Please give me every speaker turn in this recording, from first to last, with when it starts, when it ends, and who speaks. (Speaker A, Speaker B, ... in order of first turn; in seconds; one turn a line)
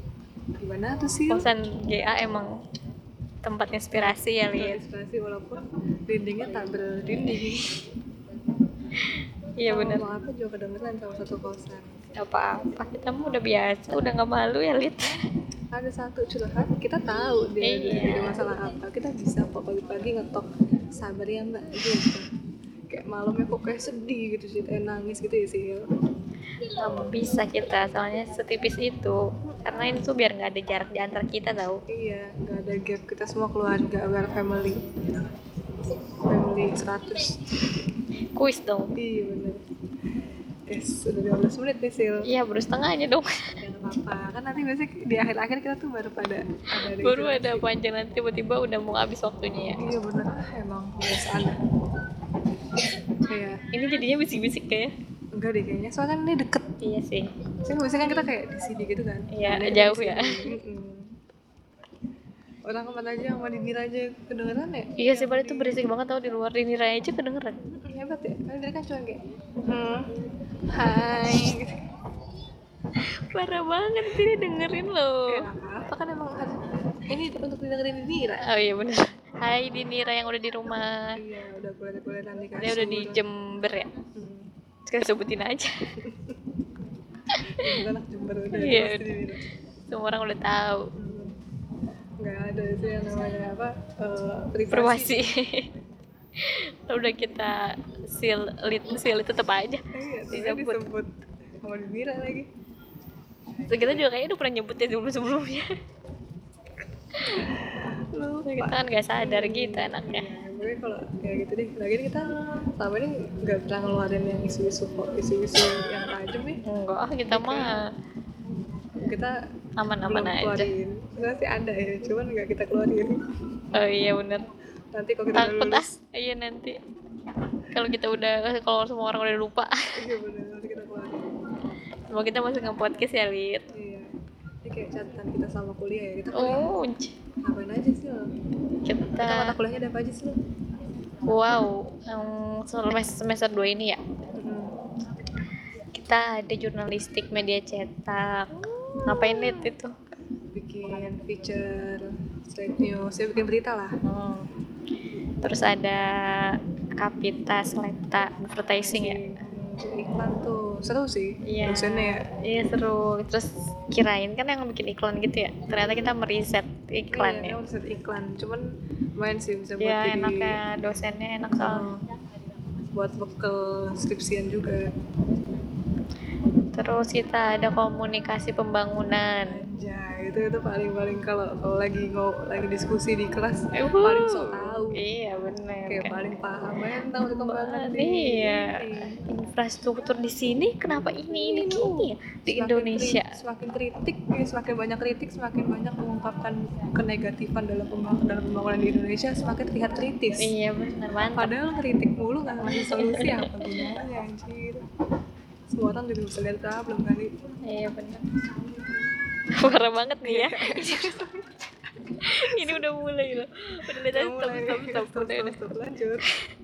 Speaker A: 0.6-1.5
Speaker B: 1.3-2.5
Speaker B: 3.4-4.8
Speaker A: 3.9-7.7
Speaker B: 9.6-10.1
Speaker A: 9.7-12.0
Speaker B: 12.2-15.2
Speaker A: 15.7-22.3
Speaker B: 17.6-18.4
Speaker A: 22.9-25.9
Speaker B: 26.8-31.8
Speaker A: 29.5-30.0
Speaker A: 31.9-34.9
Speaker A: 36.2-37.6
Speaker B: 38.3-38.9
Speaker A: 39.0-39.6
Speaker A: 40.7-42.3
Speaker B: 42.2-43.5
Speaker A: 43.6-47.7
Speaker B: 47.0-49.8
Speaker A: 49.8-51.6
Speaker A: 53.2-53.6
Speaker B: 53.7-54.9
Speaker A: 55.3-56.7
Speaker B: 56.8-57.3
Speaker A: 57.6-61.2
Speaker B: 59.3-60.5
Speaker A: 62.6-65.8
Speaker B: 65.0-67.6
Speaker A: 67.6-70.1
Speaker A: 70.7-71.8
Speaker B: 73.2-75.4
Speaker A: 75.3-78.4
Speaker B: 78.4-81.1
Speaker A: 81.2-83.2
Speaker B: 82.6-83.9
Speaker A: 84.1-84.5
Speaker B: 84.9-85.7
Speaker A: 86.0-86.4
Speaker B: 87.3-87.8
Speaker A: 87.6-89.4
Speaker B: 88.5-89.1
Speaker B: 89.9-90.9
Speaker A: 91.0-91.4
Speaker A: 92.2-95.2
Speaker B: 94.7-95.7
Speaker B: 96.4-100.8
Speaker A: 99.9-102.5
Speaker B: 103.7-105.7
Speaker A: 107.2-116.6
Speaker B: 108.4-110.3
Speaker B: 116.7-117.8
Speaker A: 117.3-117.8
Speaker A: 119.0-119.4
Speaker B: 119.8-120.7
Speaker A: 120.0-123.2
Speaker B: 123.7-124.4
Speaker A: 124.9-126.0
Speaker B: 125.3-126.8
Speaker B: 127.7-129.9
Speaker A: 129.9-131.3
Speaker B: 132.1-133.7
Speaker A: 133.7-136.7
Speaker B: 136.3-137.1
Speaker A: 137.4-138.3
Speaker B: 138.8-139.6
Speaker A: 139.2-140.4
Speaker B: 141.2-144.0
Speaker A: 144.3-144.8
Speaker B: 145.9-149.9
Speaker A: 148.6-149.7
Speaker A: 150.5-153.9
Speaker B: 154.0-154.5
Speaker B: 155.4-159.2
Speaker A: 158.8-162.3
Speaker B: 161.4-167.6
Speaker A: 165.7-166.1
Speaker A: 167.1-168.6
Speaker A: 169.2-170.6
Speaker B: 169.8-171.9
Speaker A: 171.5-172.0
Speaker A: 172.9-174.9
Speaker B: 176.7-179.6
Speaker A: 179.4-185.0
Speaker B: 183.7-186.2
Speaker A: 185.9-189.2
Speaker B: 187.2-193.3
Speaker A: 191.3-200.5
Speaker B: 200.4-201.5
Speaker A: 201.3-204.8
Speaker B: 202.6-203.9
Speaker A: 205.7-207.3
Speaker B: 207.7-208.2
Speaker B: 209.6-211.2
Speaker A: 210.2-211.5
Speaker B: 212.2-215.6
Speaker A: 212.2-212.8
Speaker A: 213.9-216.3